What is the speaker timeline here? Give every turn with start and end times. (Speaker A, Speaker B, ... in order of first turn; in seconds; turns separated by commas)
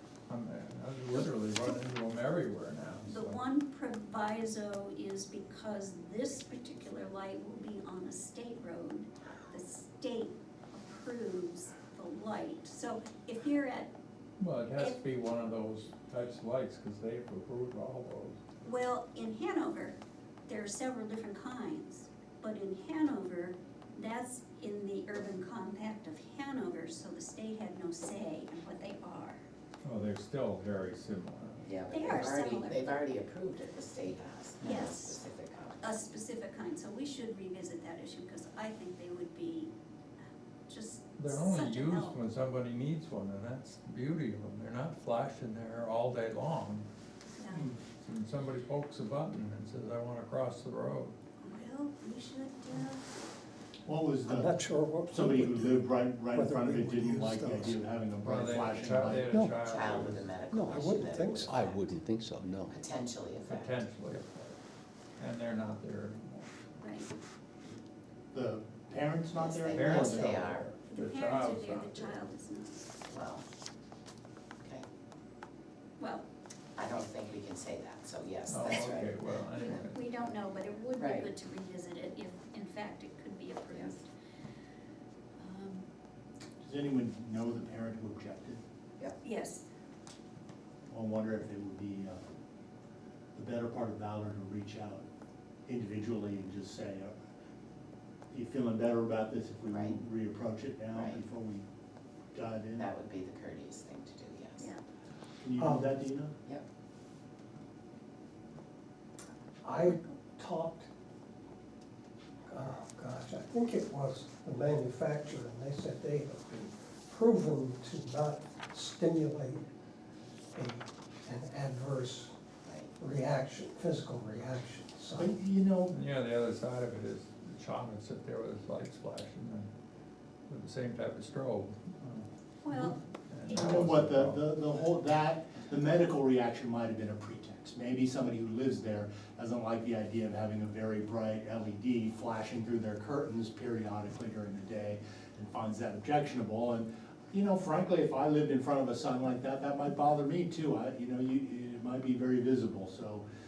Speaker A: 0.3-3.4, Speaker B: 3.1-13.9, Speaker A: 14.4-18.4, Speaker B: 18.6-29.4, Speaker A: 29.8-31.6, Speaker C: 31.6-36.0, Speaker B: 31.9-33.0, Speaker B: 34.6-35.2, Speaker B: 35.8-39.7, Speaker B: 40.7-42.2, Speaker A: 41.2-46.9, Speaker B: 47.3-47.7, Speaker D: 47.5-47.8, Speaker A: 47.9-51.2, Speaker B: 51.4-53.1, Speaker D: 53.9-54.5, Speaker E: 54.2-57.8, Speaker D: 55.1-59.5, Speaker A: 58.2-60.3, Speaker C: 59.6-61.8, Speaker F: 60.5-62.8, Speaker E: 60.6-61.6, Speaker C: 62.7-63.7, Speaker A: 63.4-64.6, Speaker A: 65.2-66.8, Speaker B: 66.8-67.1, Speaker D: 68.3-70.4, Speaker C: 69.3-70.7, Speaker A: 69.7-72.2, Speaker B: 70.9-72.8, Speaker C: 73.1-73.4, Speaker B: 76.0-76.2, Speaker C: 76.8-79.1, Speaker A: 78.5-80.0, Speaker B: 79.5-84.1, Speaker C: 81.0-81.3, Speaker B: 85.4-85.9, Speaker D: 86.6-88.6, Speaker B: 89.2-89.6, Speaker D: 90.9-92.2, Speaker D: 93.3-95.0, Speaker D: 95.7-97.1, Speaker D: 98.3-101.7, Speaker C: 99.7-100.0, Speaker C: 100.9-101.2, Speaker D: 102.3-102.9, Speaker C: 102.7-104.7, Speaker D: 105.4-106.3, Speaker E: 105.6-105.9, Speaker E: 109.6-110.9, Speaker B: 109.8-110.2, Speaker E: 112.5-119.7, Speaker E: 120.5-122.3, Speaker E: 123.0-125.3, Speaker D: 125.2-126.0, Speaker A: 125.9-129.7, Speaker A: 130.5-134.4, Speaker B: 132.6-133.0, Speaker D: 133.5-153.2